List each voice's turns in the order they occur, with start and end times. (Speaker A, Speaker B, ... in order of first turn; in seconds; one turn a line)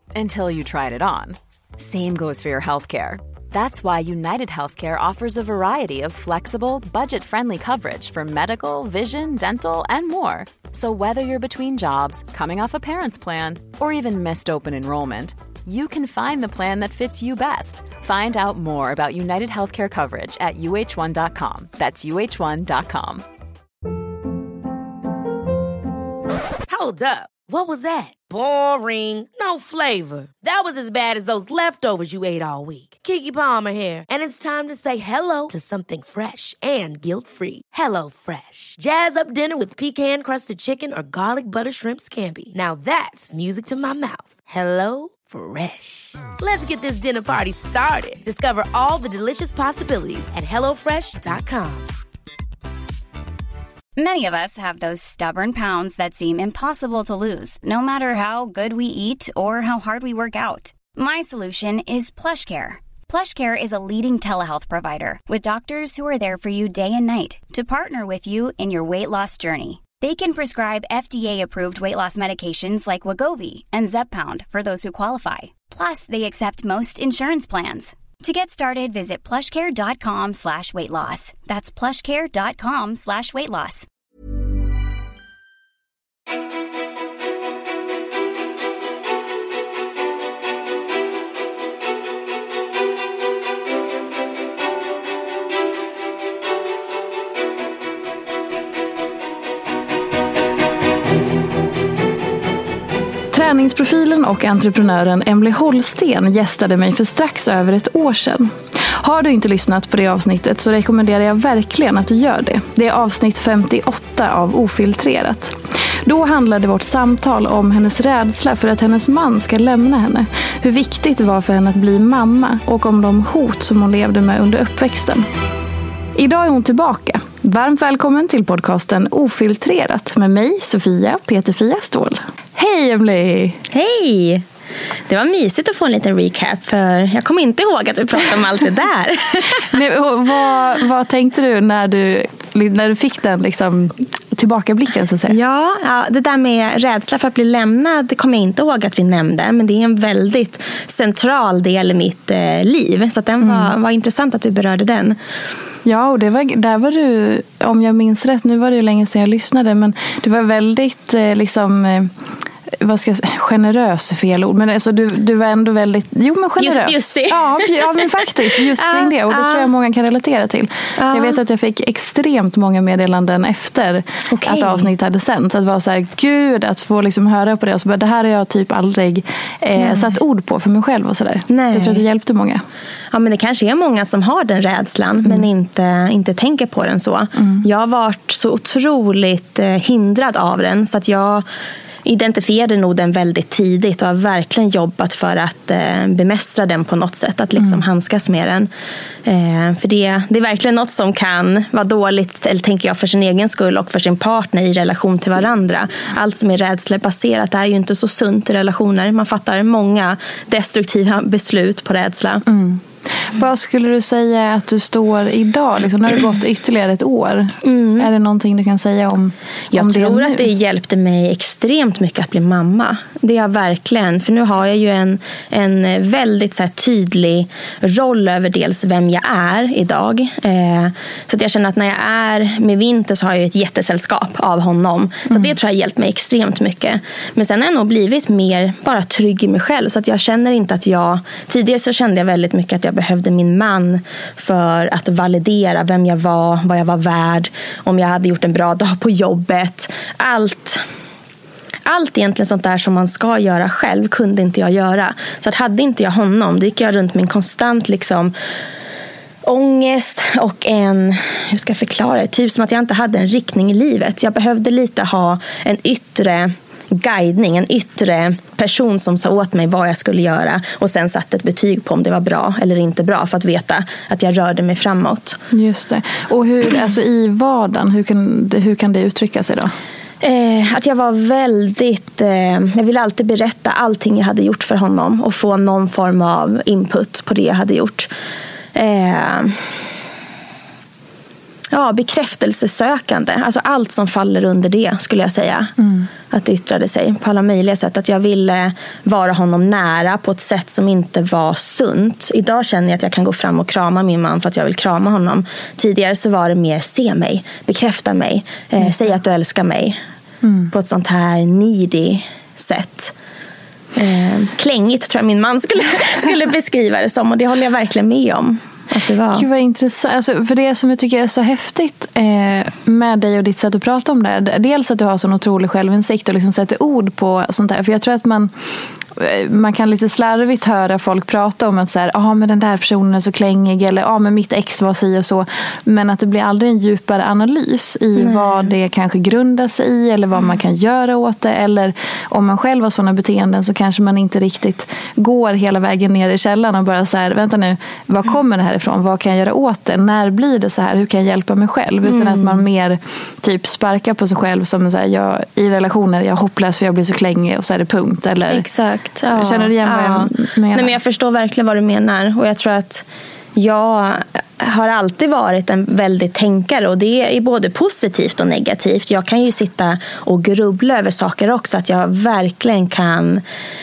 Speaker A: 0.1-23.2
Speaker B: 26.7-51.9
Speaker C: 54.0-83.9
Speaker D: 103.3-125.2
Speaker D: 126.1-133.6
Speaker E: 133.7-134.4
Speaker E: 135.1-139.7
Speaker D: 139.7-145.3
Speaker E: 145.3-155.2
Speaker D: 153.4-153.7
Speaker D: 155.8-162.1
Speaker D: 162.8-182.6
Speaker E: 166.6-168.0
Speaker E: 168.8-169.7
Speaker E: 171.0-171.4
Speaker E: 174.3-174.9
Speaker E: 179.8-180.1
Speaker E: 181.5-182.0
Speaker E: 183.1-191.4
Speaker D: 187.4-187.6
Speaker E: 192.0-198.7
Speaker E: 199.2-212.4
Speaker D: 212.4-220.5
Speaker E: 217.6-218.1
Speaker E: 219.7-250.8
Speaker E: 251.8-258.3
Speaker E: 259.4-275.4
Speaker D: 275.5-279.7
Speaker E: 280.2-288.1
Speaker E: 288.7-289.6
Speaker E: 291.7-310.0
Speaker D: 295.8-296.1
Speaker D: 310.4-310.7
Speaker E: 310.7-313.1
Speaker E: 313.9-319.5
Speaker D: 319.3-328.5
Speaker D: 329.1-358.7
Speaker E: 338.1-338.7
Speaker E: 352.0-352.6
Speaker E: 358.4-373.4
Speaker D: 359.2-360.9